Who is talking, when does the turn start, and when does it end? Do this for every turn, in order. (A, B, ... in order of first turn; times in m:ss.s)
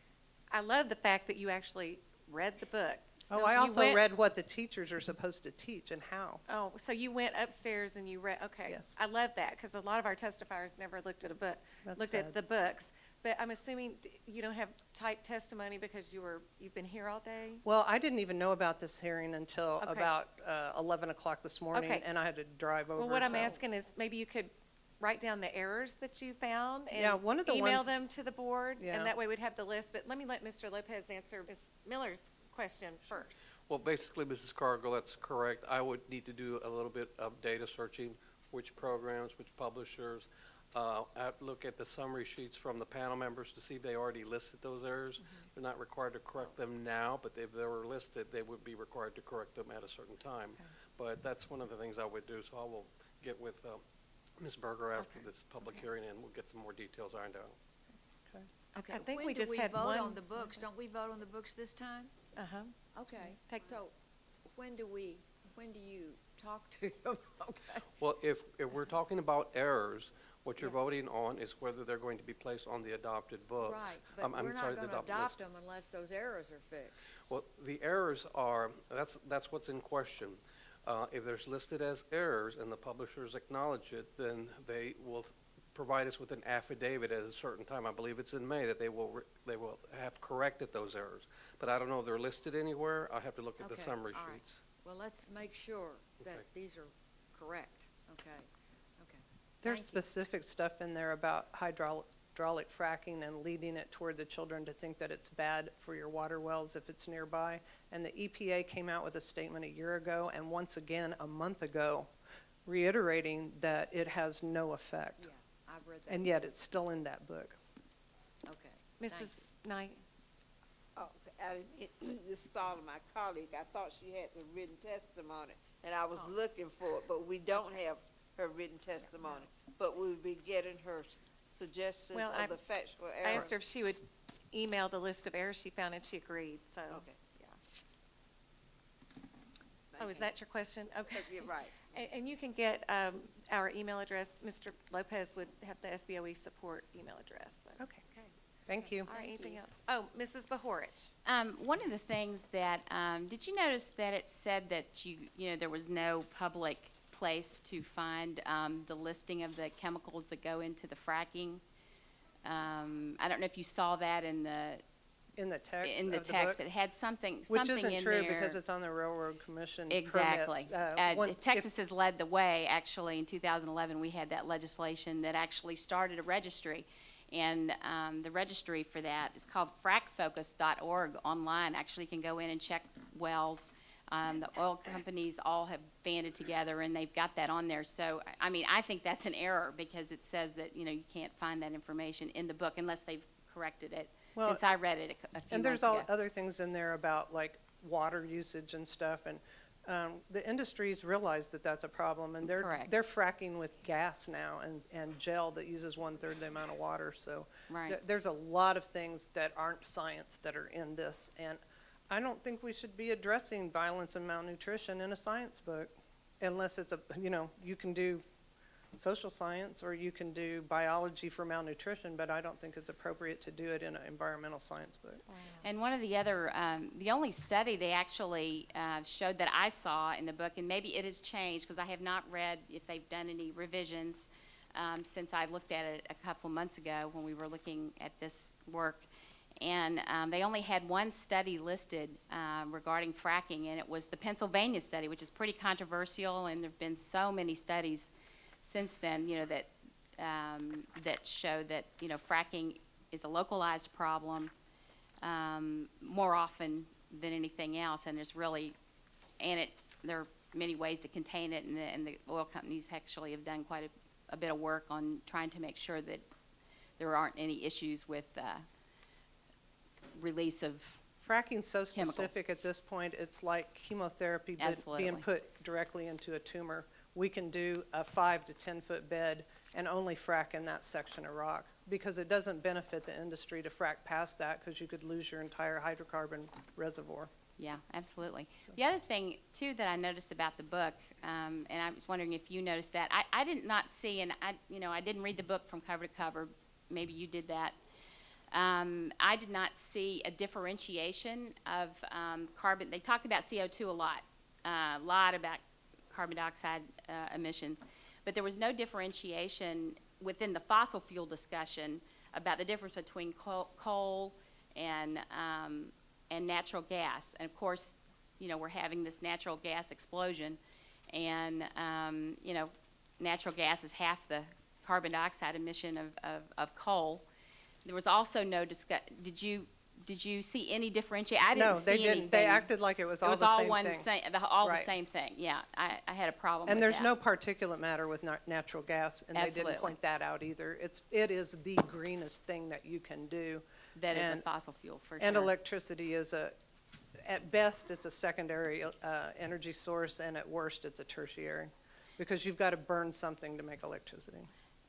0:00.5-0:04.0 A
0:03.3-0:06.4 B
0:06.5-0:17.6 A
0:08.6-0:09.0 B
0:11.8-0:12.4 B
0:17.6-0:23.6 B
0:19.8-0:20.1 A
0:21.7-0:22.0 A
0:23.0-0:33.5 A
0:26.9-0:28.0 B
0:28.8-0:29.2 B
0:33.7-0:53.8 C
0:54.4-0:57.6 C
0:55.0-0:55.8 A
0:58.8-1:02.3 D
0:58.8-1:00.2 A
1:02.4-1:02.7 A
1:02.9-1:04.0 D
1:03.3-1:03.7 A
1:04.5-1:07.9 D
1:08.0-1:15.4 C
1:13.6-1:17.2 D
1:17.2-1:34.6 C
1:33.6-1:40.0 D
1:39.6-1:52.1 B
1:52.7-1:55.3 B
1:55.2-1:56.4 D
1:56.1-1:57.6 B
1:58.5-1:59.4 D
1:59.0-2:00.0 A
2:01.0-2:13.6 E
2:12.1-2:12.6 A
2:13.2-2:17.5 A
2:16.9-2:17.2 E
2:20.0-2:20.4 E
2:20.0-2:28.3 A
2:21.1-2:22.0 E
2:28.7-2:29.1 B
2:29.0-2:31.1 A
2:31.3-2:41.6 F
2:42.4-2:44.8 F
2:45.4-2:46.6 B
2:45.8-2:48.6 F
2:47.5-2:51.7 B
2:49.9-3:16.1 F
3:14.4-3:14.6 B
3:15.5-3:38.2 B
3:22.6-3:22.9 F
3:27.7-3:28.0 F
3:38.9-3:45.2 B
3:45.3-3:45.7 A
3:45.6-3:59.0 F
3:59.6-4:08.1 F
4:08.6-4:14.5 F
4:15.2-4:18.8 F
4:19.4-4:26.2 F
4:27.0-4:28.6 F
4:30.2-4:31.0 F
4:31.2-4:47.3 B
4:31.9-4:32.3 F
4:34.6-4:35.2 F
4:47.6-4:57.8 F
4:58.5-5:20.6 F
5:21.1-5:27.2 F
5:27.8-5:32.7 F
5:31.6-5:34.1 B
5:33.2-5:37.1 F
5:34.6-5:34.9 B
5:36.7-5:44.4 B
5:39.4-5:40.0 F
5:44.0-5:45.5 F
5:45.2-5:46.5 B
5:47.2-5:54.5 B